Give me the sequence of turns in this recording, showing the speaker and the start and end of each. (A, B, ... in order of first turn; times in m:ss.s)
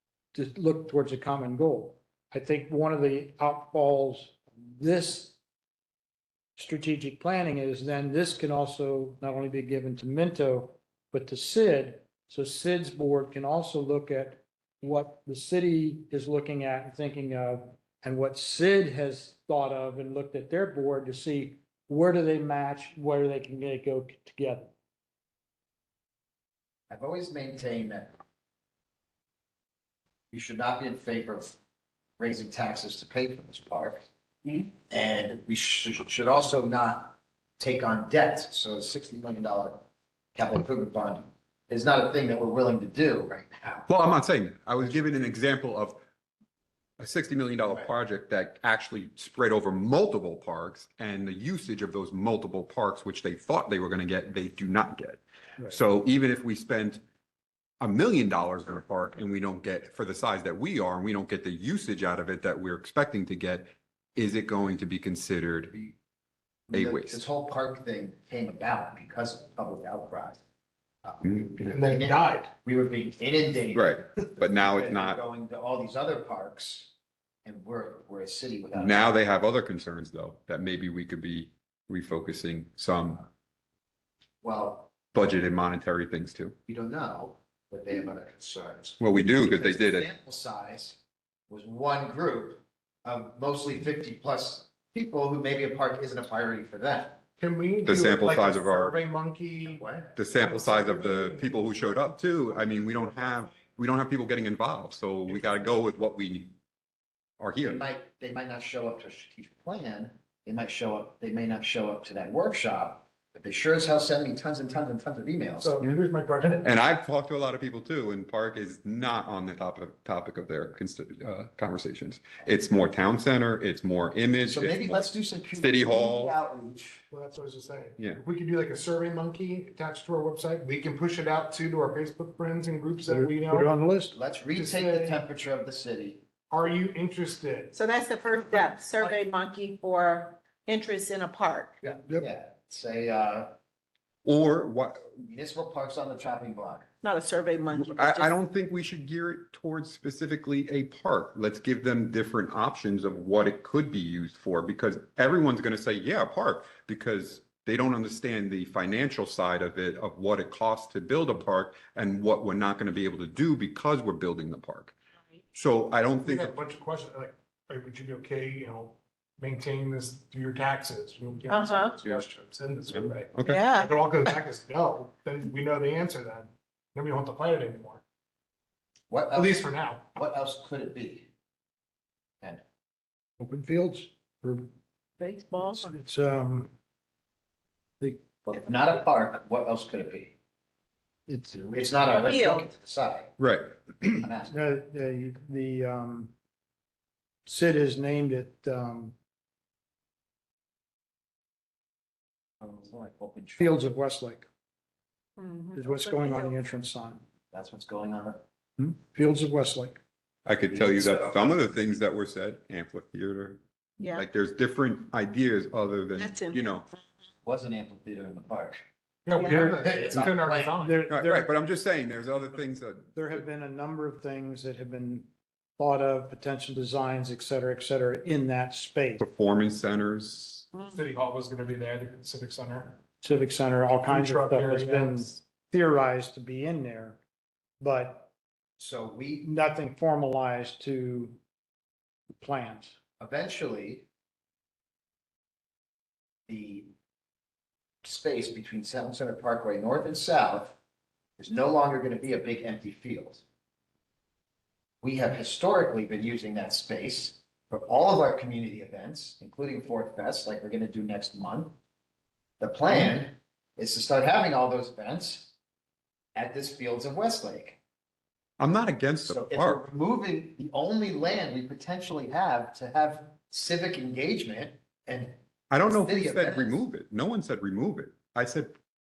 0:00.3-0:05.4 A
0:06.6-0:24.7 A
0:26.9-0:28.2 B
0:30.3-0:31.6 B
0:32.2-0:34.0 B
0:34.9-0:39.8 B
0:40.4-0:43.8 B
0:43.9-0:46.0 C
0:47.0-0:57.0 C
0:57.8-1:05.7 C
1:05.7-1:06.0 B
1:06.7-1:10.4 B
1:06.7-1:07.2 C
1:11.0-1:16.9 B
1:11.6-1:12.5 D
1:13.7-1:15.2 C
1:17.4-1:19.1 B
1:18.7-1:23.2 C
1:24.4-1:24.9 B
1:25.1-1:26.6 C
1:26.7-1:31.0 B
1:29.0-1:30.1 C
1:31.5-1:37.2 B
1:37.4-1:42.6 D
1:37.8-1:39.0 C
1:39.7-1:40.1 B
1:40.2-1:46.5 C
1:47.4-1:47.8 C
1:47.6-1:55.8 B
1:55.6-1:56.7 D
1:56.6-2:06.4 C
2:04.4-2:07.0 B
2:07.1-2:13.7 D
2:13.1-2:14.2 A
2:14.1-2:16.2 B
2:14.5-2:15.2 D
2:16.5-2:17.7 D
2:17.7-2:21.8 E
2:22.1-2:23.5 B
2:24.2-2:25.1 C
2:25.2-2:26.9 B
2:27.0-2:28.3 E
2:27.7-2:45.0 C
2:45.5-2:46.5 C
2:46.2-2:58.0 D
2:51.5-2:52.0 E
2:52.9-2:53.6 C
2:53.4-2:53.9 E
2:59.1-3:01.3 B
2:59.3-3:00.1 D
3:03.4-3:04.7 A
3:05.2-3:05.9 E
3:05.8-3:06.7 A
3:08.0-3:08.3 A
3:08.5-3:10.3 B
3:11.3-3:11.8 A
3:11.7-3:13.3 B
3:12.1-3:12.7 E
3:13.4-3:13.7 C
3:14.0-3:14.6 B
3:14.5-3:16.3 A
3:17.5-3:19.2 A
3:22.6-3:23.8 B
3:23.6-3:24.5 A
3:25.4-3:26.5 E
3:25.8-3:27.2 A
3:27.5-3:28.4 B
3:28.8-3:30.0 A
3:30.5-3:33.6 C
3:30.7-3:31.6 B
3:34.1-3:36.9 C
3:36.2-3:36.6 E
3:37.4-3:38.8 B
3:39.3-3:41.0 D
3:39.4-3:39.6 E
3:39.4-3:40.8 B
3:40.8-3:41.5 A
3:41.1-3:43.2 C
3:43.1-3:45.3 A
3:45.8-3:49.2 A
3:49.2-3:50.7 C
3:50.9-3:53.0 D
3:53.2-3:57.2 A
3:54.0-3:55.3 D
3:57.8-3:58.3 A
3:58.8-3:59.5 B
3:59.4-4:01.4 A
4:02.4-4:03.0 A
4:03.2-4:04.0 B
4:06.5-4:06.9 B
4:08.0-4:10.8 B
4:11.4-4:13.4 B
4:15.0-4:21.8 B
4:22.6-4:25.5 B
4:26.4-4:27.8 B
4:28.6-4:29.8 C
4:29.2-4:36.8 B
4:35.7-4:38.7 C